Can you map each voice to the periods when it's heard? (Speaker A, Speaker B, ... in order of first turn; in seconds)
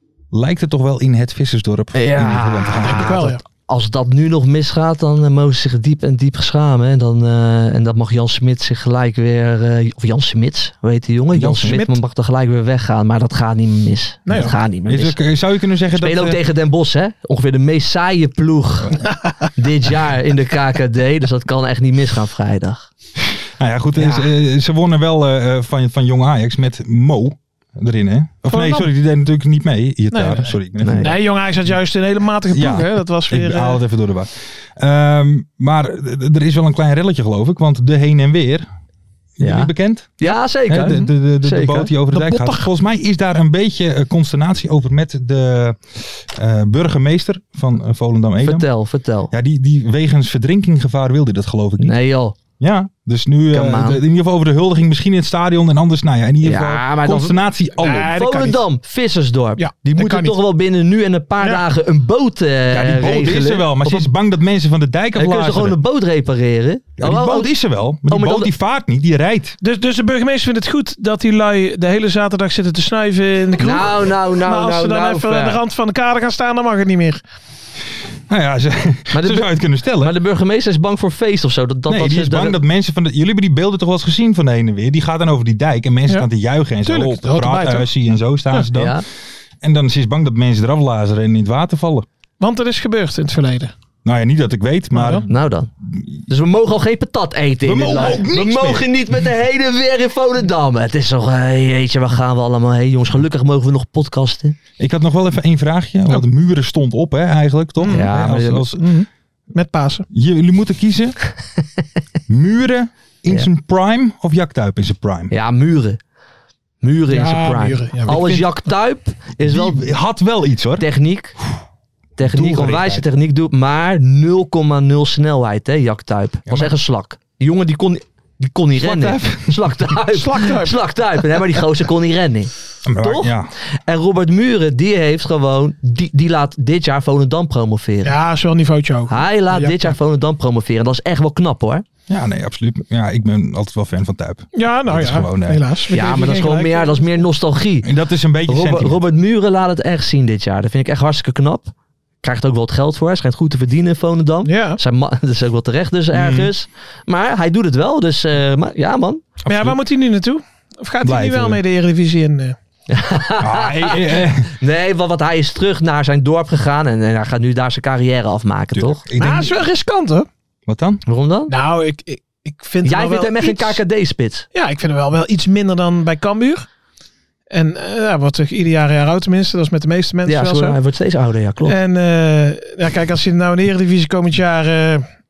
Speaker A: 0.3-3.4, 11.3-11.8, 14.3-16.4, 23.6-31.2, 32.5-38.7, 39.4-48.7, 49.3-52.0, 52.6-58.1, 62.7-65.8, 67.0-69.6, 78.3-80.1, 81.9-89.0, 89.6-92.1, 94.0-95.3, 95.9-96.2, 97.7-98.9, 104.8-109.0, 110.1-111.2, 112.3-115.3, 119.4-120.8, 122.2-123.1, 126.5-126.7, 128.8-129.9, 132.8-133.5, 142.1-145.7, 147.8-149.0, 156.1-156.5, 159.4-159.8, 161.0-161.6, 163.4-164.5, 168.7-169.6, 170.7-171.0
Speaker B: 1.9-15.2, 15.9-22.9, 30.8-31.1, 39.4-41.9, 48.4-49.3, 51.8-52.4, 53.5-54.0, 56.4-64.1, 65.2-68.5, 73.6-75.6, 79.1-82.6, 88.7-89.0, 95.3-95.7, 96.3-104.6, 107.9-108.7, 115.3-116.0, 116.8-119.9, 120.8-121.4, 122.2-138.2, 139.1-141.8, 145.9-147.9, 148.5-159.2, 162.9-169.0, 171.1-171.5, 172.8-174.5, 180.3-181.8
Speaker C: 2.8-3.4, 11.7-11.9, 14.3-14.6, 28.5-28.9, 30.1-33.8, 40.7-41.0, 42.1-42.7, 57.8-58.6, 59.6-60.4, 61.4-61.6, 69.6-77.2, 86.8-87.9, 92.4-93.7, 94.9-95.3, 107.8-108.1, 108.8-110.1, 117.1-118.5, 130.1-130.8, 138.0-139.9, 144.6-147.2, 154.4-154.8, 159.5-162.6, 169.2-170.3, 171.5-173.8, 174.5-176.7, 177.5-180.8, 181.7-185.1